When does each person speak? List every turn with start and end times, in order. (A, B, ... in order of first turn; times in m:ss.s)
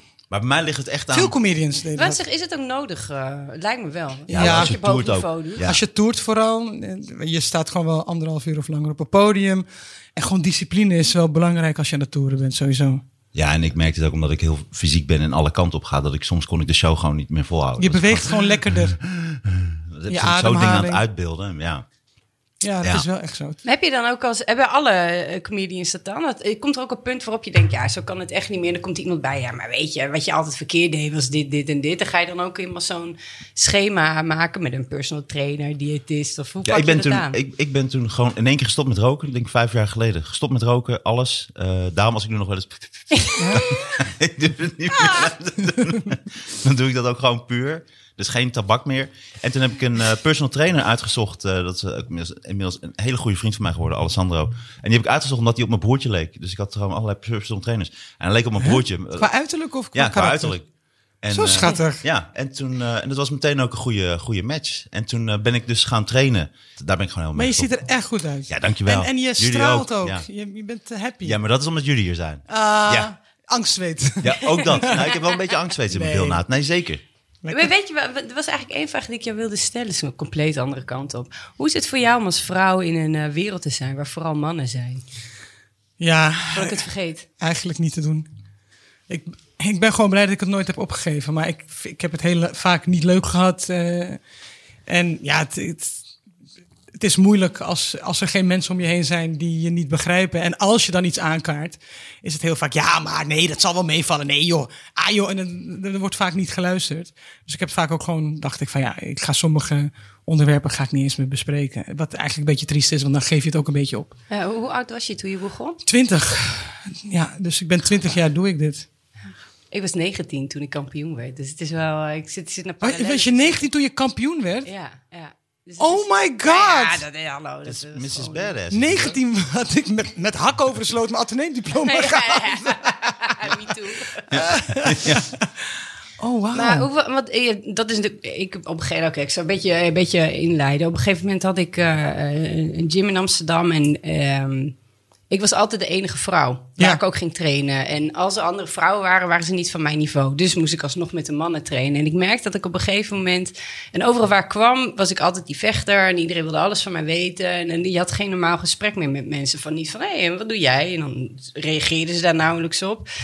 0:00.3-0:01.3 A
0:01.1-0:02.2 B
0:02.0-0:05.6 C
0:04.3-0:04.7 B
0:04.3-0:05.8 A
0:05.6-0:13.0 B
0:13.3-0:21.8 A
0:17.8-0:19.0 B
0:20.1-0:21.0 B
0:22.6-0:23.6 B
0:23.6-0:37.4 C
0:36.6-0:59.3 A
0:43.2-0:43.7 C
0:43.4-0:43.6 B
0:58.6-1:00.6 B
0:59.9-1:00.6 A
1:01.2-1:07.7 A
1:01.3-1:02.0 B
1:07.3-1:11.4 B
1:08.5-1:10.2 A
1:11.2-1:13.1 A
1:12.5-1:15.1 B
1:14.2-1:17.0 A
1:15.9-1:16.4 B
1:17.4-1:17.7 B
1:17.5-1:25.0 C
1:26.0-1:26.8 B
1:26.5-1:27.2 C
1:27.4-1:28.3 B
1:29.1-1:34.2 B
1:34.9-1:36.0 B
1:37.0-1:54.1 B
1:54.3-1:55.8 C
1:55.8-1:58.8 B
1:59.7-2:03.6 C
2:02.8-2:04.7 B
2:04.6-2:08.5 C
2:05.8-2:07.0 B
2:07.6-2:09.2 A
2:08.7-2:13.3 B
2:11.8-2:14.4 C
2:14.3-2:15.3 A
2:14.3-2:15.4 B
2:16.2-2:16.9 B
2:16.5-2:24.8 C
2:25.3-2:43.0 C